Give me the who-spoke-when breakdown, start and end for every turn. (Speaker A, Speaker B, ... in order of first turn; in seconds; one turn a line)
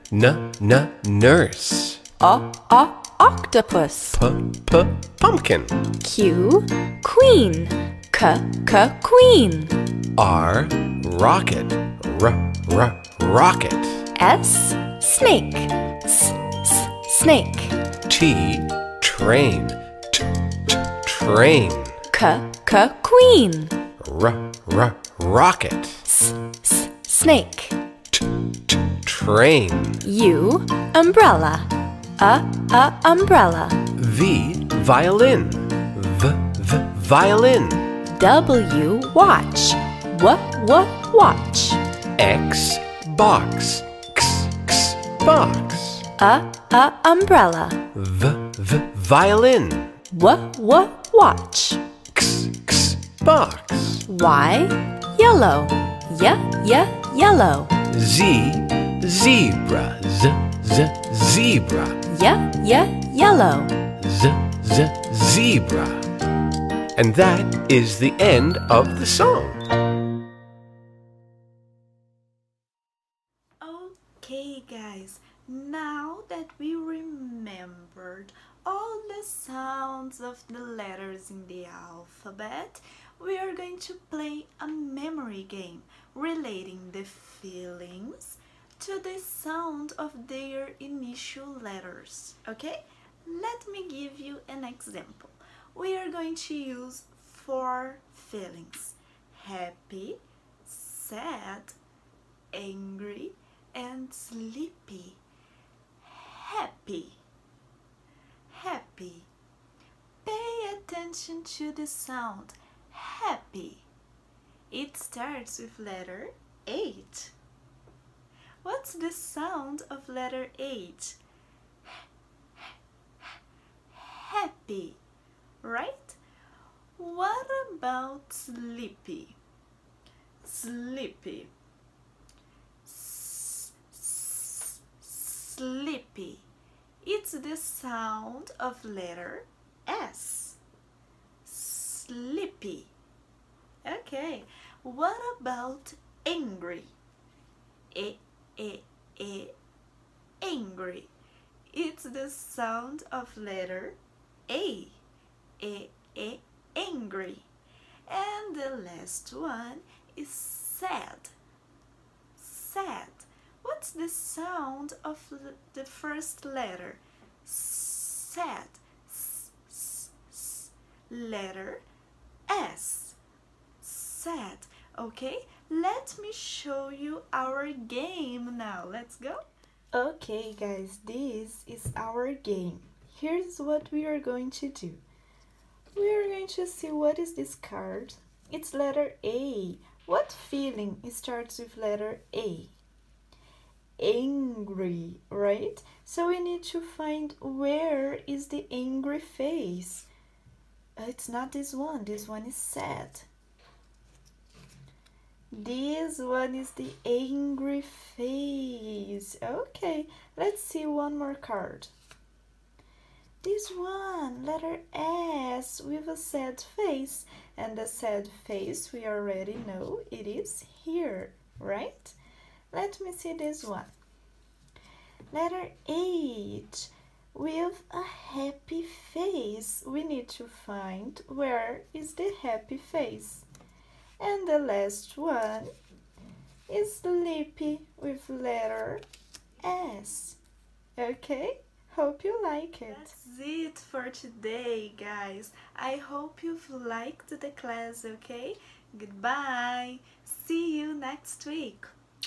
Speaker A: 0.1-2.0
Speaker B: 2.2-4.2
Speaker A: 4.1-5.8
Speaker B: 6.0-9.8
Speaker A: 10.2-14.1
Speaker B: 14.2-17.8
Speaker A: 18.1-22.0
Speaker B: 22.1-23.8
Speaker A: 24.0-26.0
Speaker B: 26.1-27.8
Speaker A: 28.1-30.0
Speaker B: 30.0-33.8
Speaker A: 33.9-37.9
Speaker B: 38.1-41.8
Speaker A: 42.2-46.0
Speaker B: 46.2-47.8
Speaker A: 47.9-49.9
Speaker B: 50.1-51.8
Speaker A: 52.1-54.0
Speaker B: 54.1-57.8
Speaker A: 57.9-62.0
Speaker B: 62.1-63.7
Speaker A: 64.0-66.1
Speaker A: 67.0-69.6
Speaker C: 73.6-101.8
Speaker C: 102.5-105.2
Speaker C: 106.0-107.2
Speaker C: 108.5-109.3
Speaker C: 110.2-113.8
Speaker C: 114.7-117.3
Speaker C: 118.6-121.2
Speaker C: 123.9-125.0
Speaker C: 125.6-126.2
Speaker C: 127.0-129.4
Speaker C: 130.4-131.5
Speaker C: 132.8-136.4
Speaker C: 137.0-140.6
Speaker C: 141.4-142.9
Speaker C: 143.8-146.9
Speaker C: 147.9-149.6
Speaker C: 150.4-151.1
Speaker C: 151.7-155.0
Speaker C: 155.6-157.5
Speaker C: 158.1-161.3
Speaker C: 162.3-171.8
Speaker C: 172.5-173.2
Speaker C: 173.8-185.0
Speaker C: 185.9-192.7
Speaker C: 194.0-200.1
Speaker C: 201.0-203.3
Speaker C: 205.5-211.9
Speaker C: 213.4-222.2
Speaker C: 222.7-223.9
Speaker C: 225.3-233.4
Speaker C: 234.2-235.7
Speaker C: 236.7-239.0
Speaker C: 239.6-240.4
Speaker C: 241.0-251.9